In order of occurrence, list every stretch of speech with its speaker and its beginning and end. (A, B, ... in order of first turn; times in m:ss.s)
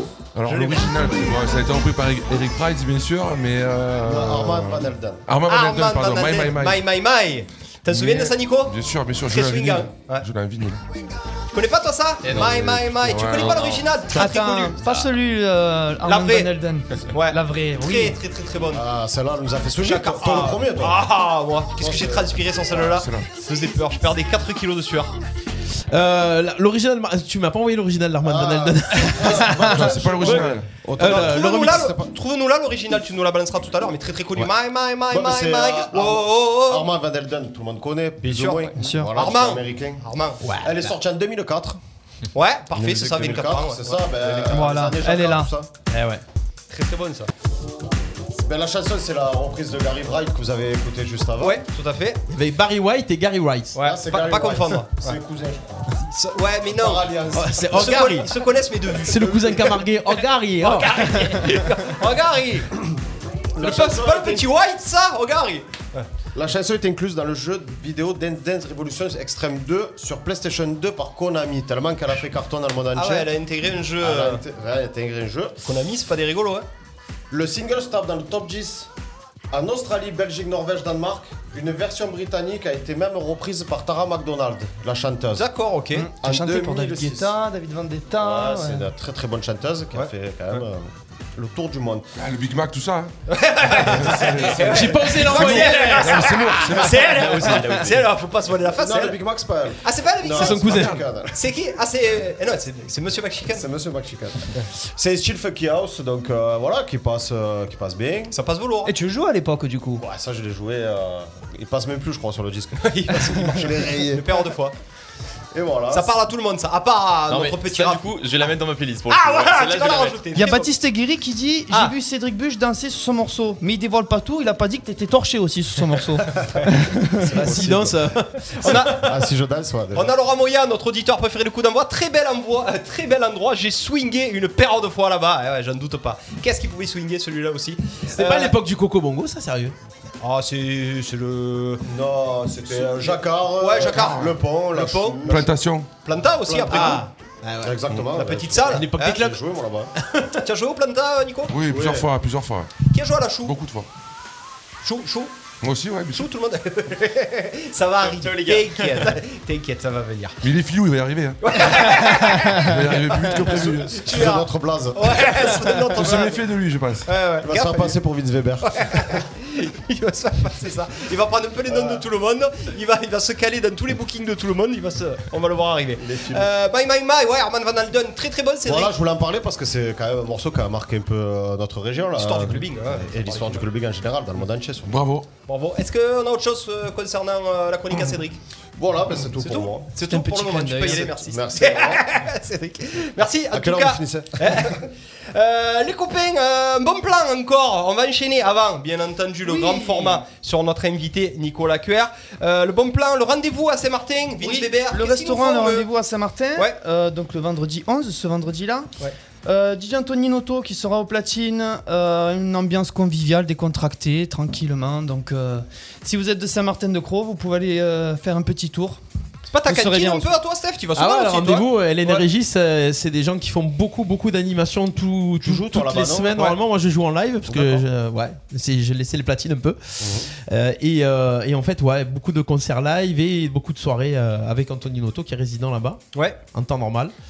0:00.4-0:06.9 A
0:00.5-0:01.2 B
0:04.0-0:05.2 C
0:05.5-0:08.8 B
0:07.9-0:10.8 A
0:09.3-0:10.3 B
0:11.5-0:15.1 B
0:12.3-0:13.8 A
0:13.5-0:13.8 D
0:14.1-0:18.2 E
0:16.0-0:16.5 B
0:17.1-0:18.8 B
0:18.7-0:21.1 C
0:19.8-0:25.2 B
0:21.8-0:22.9 C
0:22.8-0:23.3 A
0:25.9-0:29.8 F
0:28.2-0:32.1 C
0:29.6-0:30.8 A
0:30.2-0:36.9 B
0:31.0-0:31.9 F
0:35.1-0:40.1 C
0:38.2-0:40.4 B
0:38.8-0:39.1 E
0:40.4-0:40.9 F
0:40.6-0:41.8 C
0:42.3-0:44.9 B
0:42.7-0:45.7 C
0:44.5-0:45.5 E
0:45.9-0:46.2 F
0:46.7-0:47.3 B
0:48.3-0:51.6 C
0:51.4-0:52.2 B
0:52.3-0:53.8 F
0:53.8-0:55.2 B
0:53.8-0:55.9 C
0:56.0-0:57.1 B
0:56.7-0:58.3 C
0:57.3-0:58.3 F
0:57.7-1:02.7 B
0:59.1-1:01.4 F
1:03.6-1:06.1 B
1:03.6-1:04.5 C
1:06.3-1:13.3 C
1:13.0-1:14.4 B
1:14.0-1:15.6 C
1:15.6-1:16.7 B
1:17.3-1:18.9 C
1:19.5-1:25.5 C
1:25.4-1:26.1 B
1:25.9-1:28.9 E
1:26.2-1:27.3 C
1:28.2-1:32.1 C
1:30.0-1:30.6 B
1:32.2-1:33.1 A
1:33.3-1:39.2 B
1:33.7-1:37.5 A
1:34.6-1:36.2 F
1:37.0-1:38.1 D
1:38.7-1:41.4 C
1:39.8-1:43.6 B
1:40.3-1:41.0 F
1:40.7-1:41.0 A
1:43.5-1:48.4 C
1:48.3-1:48.9 B
1:48.8-1:50.0 E
1:50.0-1:54.5 C
1:52.8-1:54.7 B
1:55.5-1:56.2 C
1:55.9-1:58.0 B
1:57.3-2:00.2 D
1:59.1-2:00.7 B
2:00.4-2:07.3 E
2:07.2-2:10.2 C
2:07.4-2:08.5 F
2:08.5-2:09.3 B
2:09.9-2:18.6 B
2:18.1-2:19.8 F
2:20.2-2:21.8 B
2:21.8-2:25.5 C
2:22.7-2:25.5 B
2:23.9-2:24.3 A
2:25.3-2:25.9 A
2:26.0-2:27.1 B
2:26.5-2:27.0 C
2:26.7-2:27.9 F
2:27.6-2:29.9 C
2:28.1-2:29.3 B
2:28.7-2:29.4 F
2:30.0-2:30.4 F
2:30.4-2:31.6 B
2:31.5-2:32.7 A
2:31.7-2:32.1 C
2:32.9-2:33.6 B
2:33.4-2:33.9 A
2:34.8-2:35.3 B
2:35.6-2:36.3 A
2:36.1-2:40.4 B
2:38.0-2:38.8 D
2:40.4-2:41.4 A
2:41.4-2:46.4 B
2:42.5-2:44.1 A
2:43.8-2:45.6 C
2:45.9-2:47.1 A
2:47.1-2:48.0 B
2:47.4-2:49.2 C
2:48.7-2:58.9 B
2:51.7-2:52.0 C
2:56.0-2:56.5 C
2:58.6-3:05.0 C
3:02.2-3:03.7 B
3:04.9-3:05.3 A
3:05.5-3:08.4 B
3:08.8-3:09.9 C
3:09.4-3:25.9 B
3:10.0-3:11.1 E
3:10.8-3:12.1 C
3:13.5-3:14.8 C
3:19.4-3:20.2 E
3:24.4-3:28.9 E
3:29.4-3:39.0 E
3:39.5-3:42.3 B
3:39.7-3:40.3 E
3:41.0-3:56.0 F
3:45.4-3:46.5 C
3:47.5-3:47.9 C
3:50.0-3:50.3 C
3:56.1-3:56.4 B
3:56.5-3:57.1 F